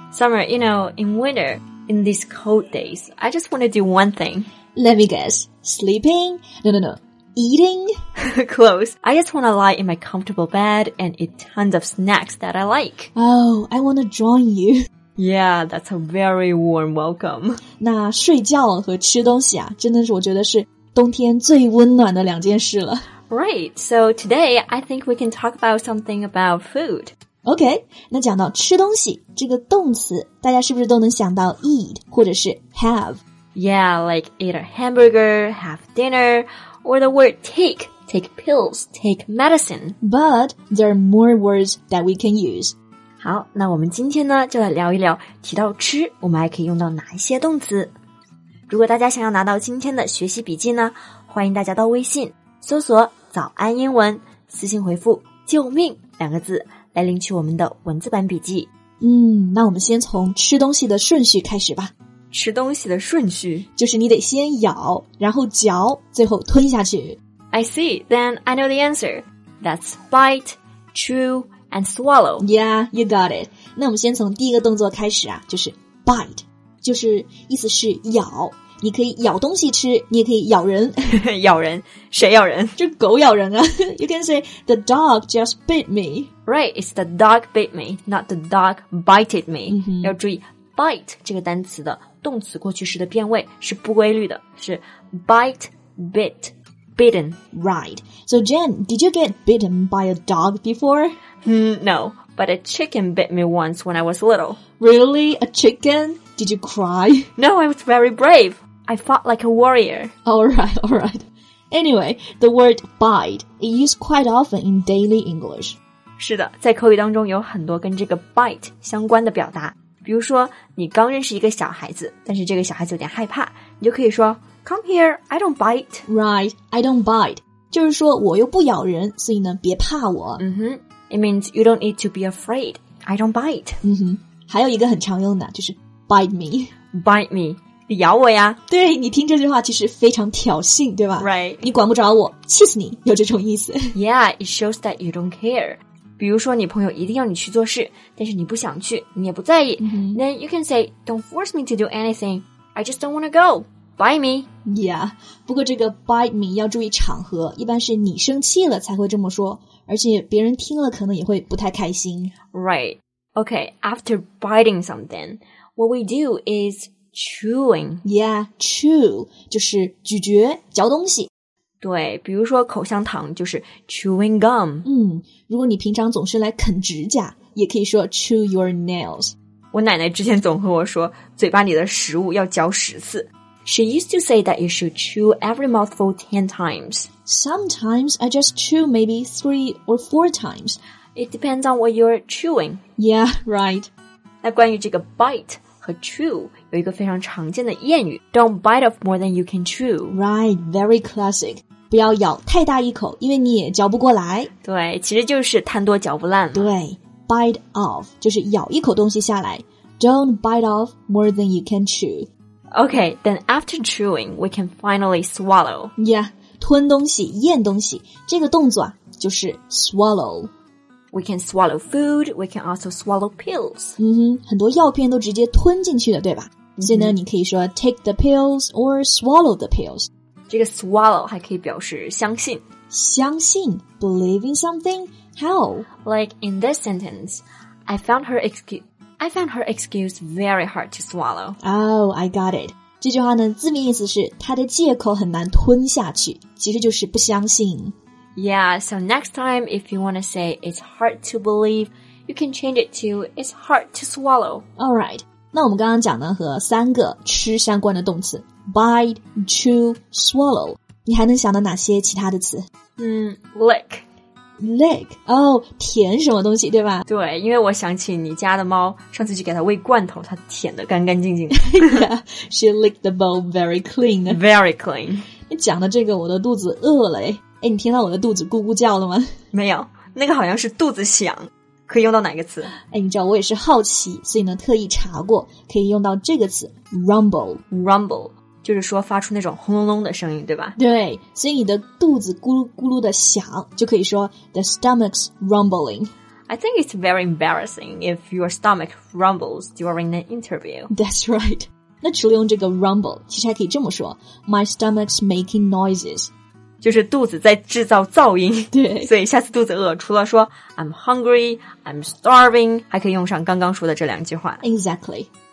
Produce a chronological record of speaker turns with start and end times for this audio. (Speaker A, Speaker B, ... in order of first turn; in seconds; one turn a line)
Speaker A: 0.1-4.5
Speaker B: 4.8-7.9
Speaker A: 8.2-13.1
Speaker B: 13.2-14.9
Speaker A: 15.2-17.6
Speaker B: 17.8-23.0
Speaker A: 23.3-27.1
Speaker B: 27.4-33.2
Speaker A: 33.5-40.0
Speaker B: 40.0-42.8
Speaker A: 43.2-47.9
Speaker A: 48.7-58.7
Speaker B: 59.0-61.9
Speaker A: 62.3-63.7
Speaker B: 63.8-67.2
Speaker A: 67.5-72.5
Speaker B: 72.4-81.1
Speaker A: 81.1-82.7
Speaker B: 82.8-86.3
Speaker A: 86.5-97.4
Speaker B: 89.7-90.2
Speaker B: 97.5-101.2
Speaker A: 101.4-104.6
Speaker B: 104.8-107.3
Speaker A: 107.4-110.1
Speaker B: 110.2-115.8
Speaker A: 116.2-126.0
Speaker B: 126.1-130.4
Speaker A: 130.4-133.8
Speaker B: 133.8-136.7
Speaker A: 136.9-138.6
Speaker B: 138.7-143.9
Speaker A: 141.2-141.6
Speaker A: 143.9-154.4
Speaker B: 149.8-150.2
Speaker B: 154.7-162.3
Speaker A: 162.5-168.0
Speaker B: 168.0-171.3
Speaker A: 171.8-174.8
Speaker B: 174.8-179.3
Speaker A: 179.7-187.1
Speaker B: 187.2-190.8
Speaker A: 191.1-192.8
Speaker B: 193.0-193.9
Speaker A: 194.4-200.2
Speaker B: 200.1-204.5
Speaker A: 204.6-206.7
Speaker B: 206.5-212.3
Speaker A: 212.7-215.9
Speaker B: 216.0-220.5
Speaker A: 221.1-224.0
Speaker B: 224.0-230.1
Speaker A: 226.8-227.2
Speaker A: 230.5-232.6
Speaker B: 232.9-235.9
Speaker A: 236.0-241.6
Speaker B: 241.6-247.9
Speaker A: 248.3-254.6
Speaker B: 254.8-262.6
Speaker A: 263.0-264.0
Speaker B: 264.6-267.1
Speaker A: 267.1-272.0
Speaker B: 271.5-274.4
Speaker A: 274.3-275.3
Speaker B: 275.5-279.3
Speaker A: 279.5-282.7
Speaker B: 282.9-287.6
Speaker A: 287.7-290.8
Speaker B: 290.8-296.1
Speaker A: 296.5-300.9
Speaker B: 300.9-306.3
Speaker A: 306.8-314.6
Speaker B: 308.7-309.1
Speaker B: 314.6-315.3